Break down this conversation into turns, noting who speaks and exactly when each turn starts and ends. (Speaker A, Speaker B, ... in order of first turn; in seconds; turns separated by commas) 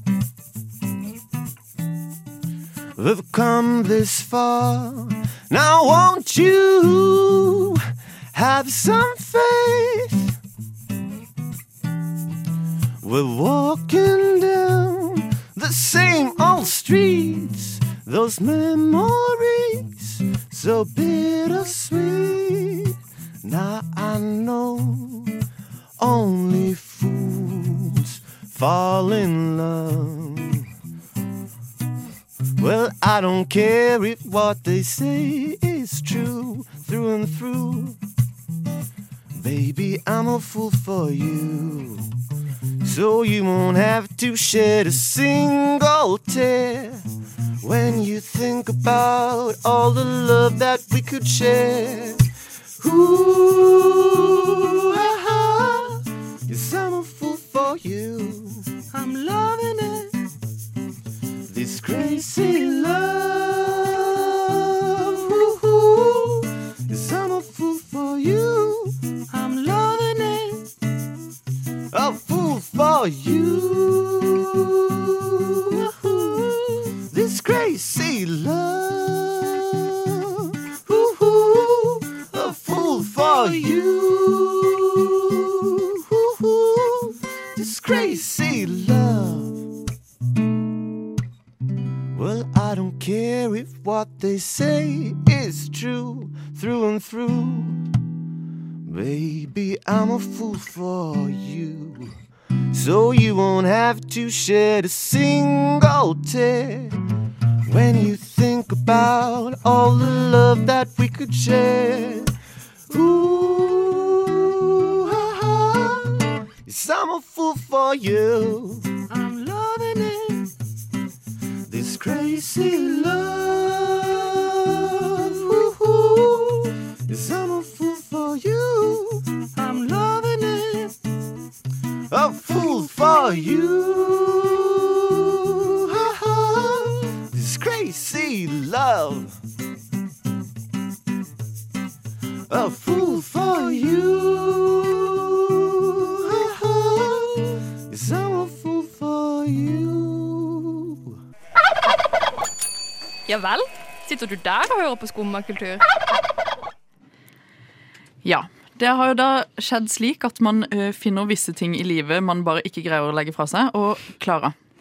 Speaker A: 3.0-10.3, Speaker A: 13.0-25.4, Speaker A: 26.0-30.7, Speaker A: 32.6-38.0, Speaker A: 39.3-42.1, Speaker A: 42.8-47.0, Speaker A: 47.6-52.2, Speaker A: 52.8-58.7, Speaker B: 58.9-60.1, Speaker A: 61.5-69.0, Speaker B: 69.3-70.7, Speaker A: 71.9-89.6, Speaker A: 92.1-97.8, Speaker A: 98.8-102.2, Speaker A: 102.7-107.0, Speaker A: 107.7-112.3, Speaker A: 112.9-118.9, Speaker B: 119.1-120.4, Speaker A: 121.7-129.3, Speaker B: 129.5-130.9, Speaker A: 132.1-139.4, Speaker A: 142.5-151.2, Speaker C: 153.3-155.8, Speaker D: 158.2-164.5